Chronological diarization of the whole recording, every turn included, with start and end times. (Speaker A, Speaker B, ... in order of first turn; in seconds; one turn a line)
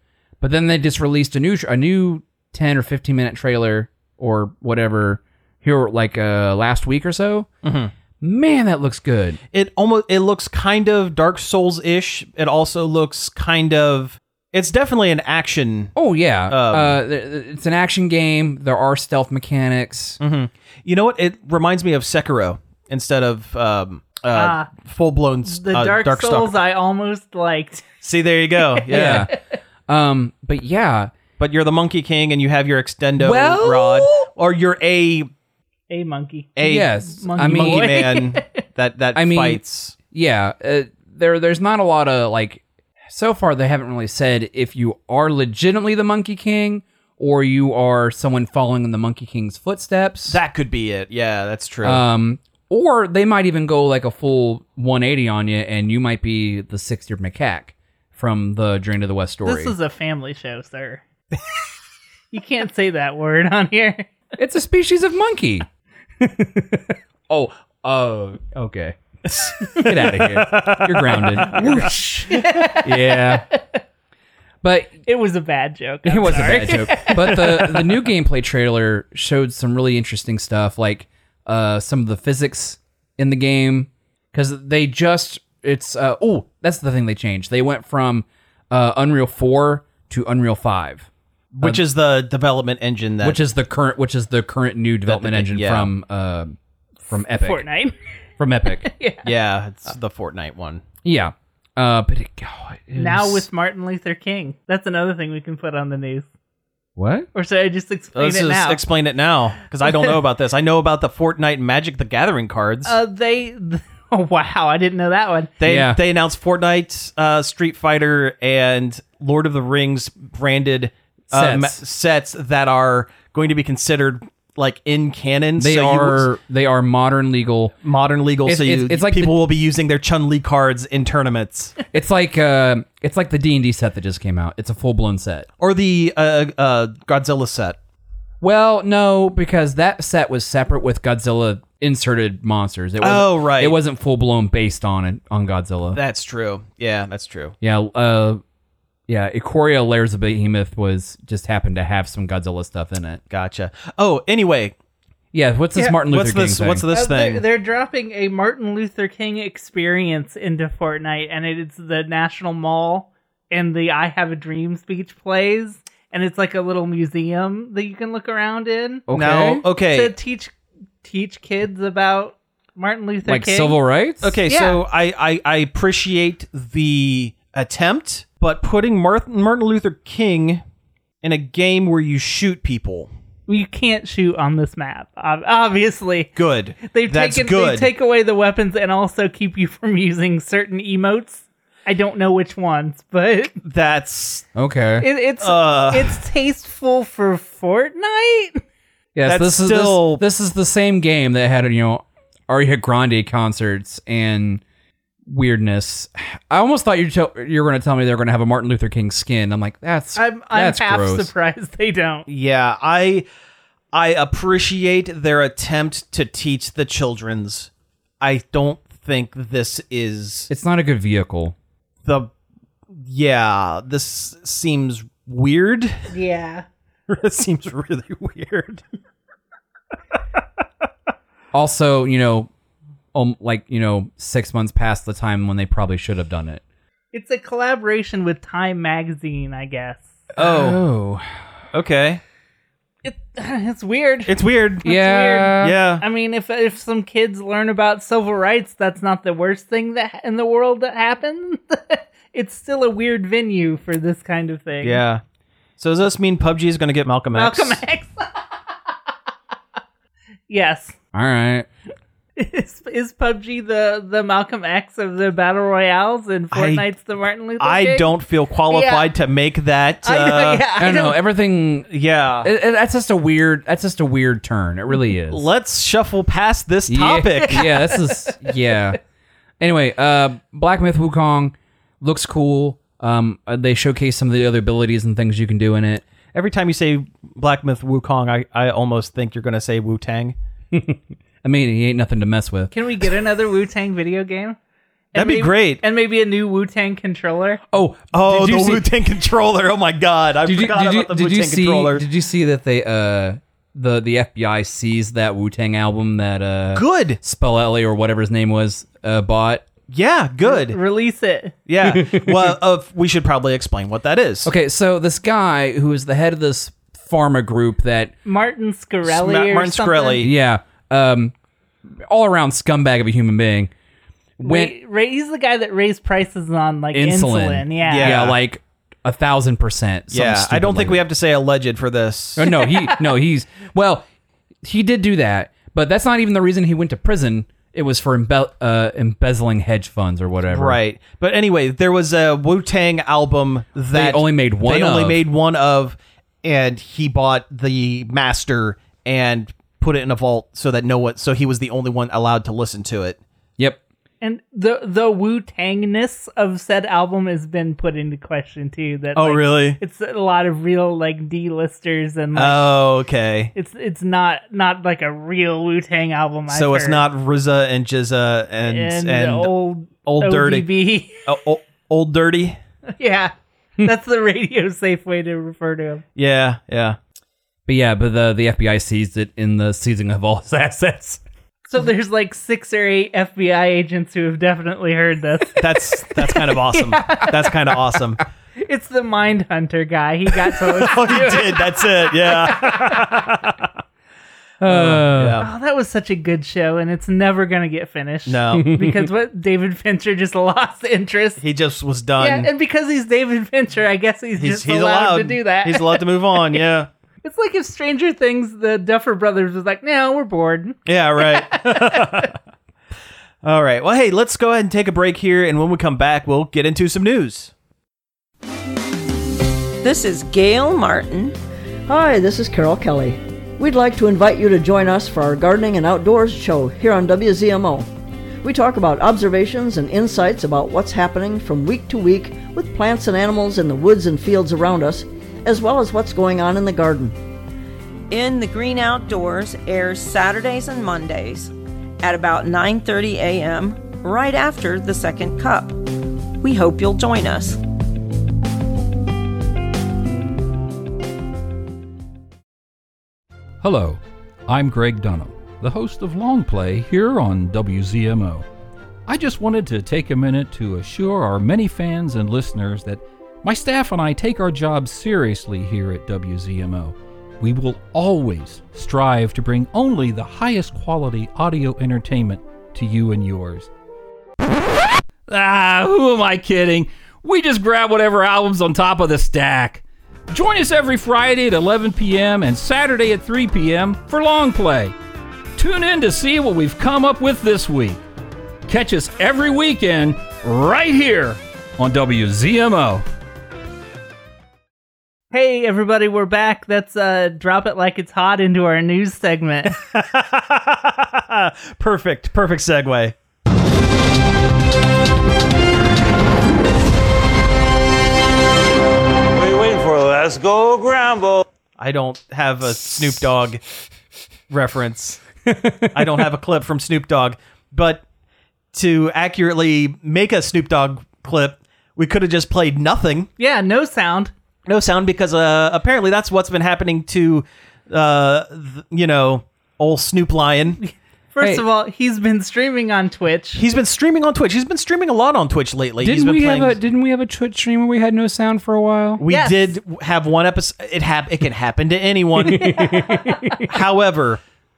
Speaker A: 0.4-7.5
Speaker B: 7.6-7.9
Speaker A: 8.2-9.4
Speaker B: 9.5-15.9
Speaker A: 16.0-20.2
Speaker B: 16.5-17.0
Speaker B: 20.2-26.6
Speaker C: 24.3-24.7
Speaker C: 25.5-27.9
Speaker B: 28.0-29.3
Speaker A: 28.9-29.3
Speaker C: 29.0-29.4
Speaker A: 29.9-31.1
Speaker B: 31.4-35.3
Speaker A: 33.2-34.2
Speaker C: 35.9-38.6
Speaker B: 36.6-40.0
Speaker A: 36.6-38.0
Speaker A: 39.1-50.4
Speaker B: 50.3-52.0
Speaker A: 51.8-59.7
Speaker C: 59.5-61.0
Speaker C: 62.3-64.1
Speaker A: 64.4-65.7
Speaker A: 66.2-73.5
Speaker B: 69.3-71.9
Speaker C: 71.6-73.8
Speaker A: 74.6-75.0
Speaker C: 75.1-77.8
Speaker A: 76.0-91.1
Speaker B: 77.2-77.5
Speaker B: 91.5-93.4
Speaker A: 93.2-96.5
Speaker B: 95.1-95.9
Speaker A: 97.1-97.7
Speaker C: 97.4-98.0
Speaker A: 98.4-98.9
Speaker C: 98.7-99.3
Speaker B: 99.2-100.8
Speaker A: 101.0-103.5
Speaker C: 103.0-106.3
Speaker A: 107.0-107.3
Speaker C: 107.3-108.8
Speaker B: 108.2-113.0
Speaker C: 112.8-115.5
Speaker B: 115.6-126.3
Speaker A: 115.6-116.0
Speaker A: 121.3-121.8
Speaker A: 125.6-127.8
Speaker B: 127.8-131.7
Speaker A: 128.4-129.3
Speaker A: 131.9-135.5
Speaker B: 135.6-137.8
Speaker A: 138.4-146.0
Speaker B: 143.0-143.8
Speaker B: 145.9-147.6
Speaker A: 147.6-148.4
Speaker A: 149.1-153.2
Speaker B: 153.3-154.8
Speaker A: 155.3-156.8
Speaker B: 156.1-157.4
Speaker C: 156.9-169.0
Speaker A: 169.1-169.6
Speaker B: 169.1-170.1
Speaker C: 169.9-173.8
Speaker A: 173.3-174.3
Speaker B: 174.2-180.6
Speaker C: 174.5-174.8
Speaker B: 181.2-183.1
Speaker C: 183.5-193.6
Speaker B: 186.4-187.9
Speaker B: 193.6-194.5
Speaker A: 194.6-195.1
Speaker C: 195.0-198.6
Speaker B: 195.4-196.2
Speaker A: 199.2-204.6
Speaker B: 199.3-200.2
Speaker A: 205.3-211.3
Speaker C: 210.2-212.3
Speaker B: 212.3-213.3
Speaker B: 213.9-220.5
Speaker A: 220.5-221.6
Speaker B: 222.0-222.3
Speaker B: 222.9-226.1
Speaker C: 226.1-226.7
Speaker B: 227.1-228.8
Speaker A: 231.5-232.5
Speaker A: 233.1-236.6
Speaker C: 237.1-240.2
Speaker B: 240.4-240.8
Speaker A: 240.4-241.3
Speaker B: 241.7-242.2
Speaker C: 243.0-255.0
Speaker B: 244.3-244.8
Speaker A: 244.8-245.8
Speaker B: 245.6-246.0
Speaker B: 254.8-255.2
Speaker B: 255.8-257.8
Speaker C: 257.3-258.9
Speaker C: 260.5-260.9
Speaker A: 261.1-261.7
Speaker C: 262.4-268.1
Speaker B: 266.5-266.9
Speaker B: 267.6-270.7
Speaker C: 268.7-269.1
Speaker C: 270.0-271.2
Speaker A: 270.8-271.9
Speaker B: 271.9-272.5
Speaker A: 272.4-275.5
Speaker B: 275.3-277.7
Speaker A: 276.9-279.0
Speaker C: 277.5-278.6
Speaker A: 279.6-286.1
Speaker B: 286.3-290.4
Speaker A: 290.7-292.7
Speaker C: 292.7-294.6
Speaker C: 295.1-297.6
Speaker B: 295.1-295.8
Speaker A: 297.7-298.9
Speaker B: 298.1-302.1
Speaker A: 300.4-309.7
Speaker B: 306.7-307.2
Speaker B: 309.9-310.8
Speaker C: 310.4-311.6
Speaker B: 311.7-314.5
Speaker A: 311.9-312.5
Speaker A: 314.4-318.1
Speaker C: 318.3-320.2
Speaker B: 319.1-320.3
Speaker A: 320.2-321.3
Speaker A: 322.1-323.7
Speaker A: 324.4-324.7
Speaker C: 324.4-328.2
Speaker A: 326.9-331.0
Speaker B: 327.9-328.4
Speaker B: 330.1-332.4
Speaker A: 332.4-334.1
Speaker C: 332.4-333.0
Speaker A: 334.6-340.8
Speaker B: 340.5-353.2
Speaker A: 343.9-345.2
Speaker C: 354.2-362.8
Speaker B: 359.1-359.8
Speaker B: 362.4-363.5
Speaker C: 363.5-367.0
Speaker B: 366.5-369.5
Speaker C: 368.6-371.2
Speaker B: 370.1-370.7
Speaker B: 371.2-372.6
Speaker C: 373.0-376.0
Speaker B: 376.2-377.0
Speaker A: 377.7-381.2
Speaker C: 381.7-387.7
Speaker B: 385.6-388.2
Speaker C: 388.6-393.1
Speaker B: 390.6-393.7
Speaker A: 394.6-395.4
Speaker B: 394.7-395.5
Speaker C: 395.4-401.4
Speaker B: 398.3-398.8
Speaker A: 398.6-399.0
Speaker B: 401.4-402.5
Speaker C: 402.2-406.6
Speaker B: 404.4-406.9
Speaker C: 407.2-412.3
Speaker B: 410.9-412.4
Speaker B: 413.4-417.5
Speaker D: 419.8-421.4
Speaker E: 421.9-427.9
Speaker E: 428.4-437.2
Speaker D: 438.1-445.9
Speaker D: 446.4-447.6
Speaker F: 453.6-458.4
Speaker F: 459.1-473.7
Speaker F: 475.3-484.9
Speaker F: 485.6-488.0
Speaker F: 488.7-493.0
Speaker C: 495.3-499.8
Speaker B: 499.7-503.1
Speaker G: 509.3-511.4
Speaker B: 511.8-513.6
Speaker B: 514.5-515.2
Speaker A: 515.5-516.0
Speaker B: 515.9-518.0
Speaker B: 518.7-523.3
Speaker C: 523.4-524.3
Speaker B: 524.7-530.8
Speaker C: 530.8-533.6
Speaker B: 533.5-536.8
Speaker A: 536.0-539.2
Speaker B: 539.2-544.4
Speaker C: 539.3-539.8
Speaker A: 542.5-543.7
Speaker C: 542.5-543.6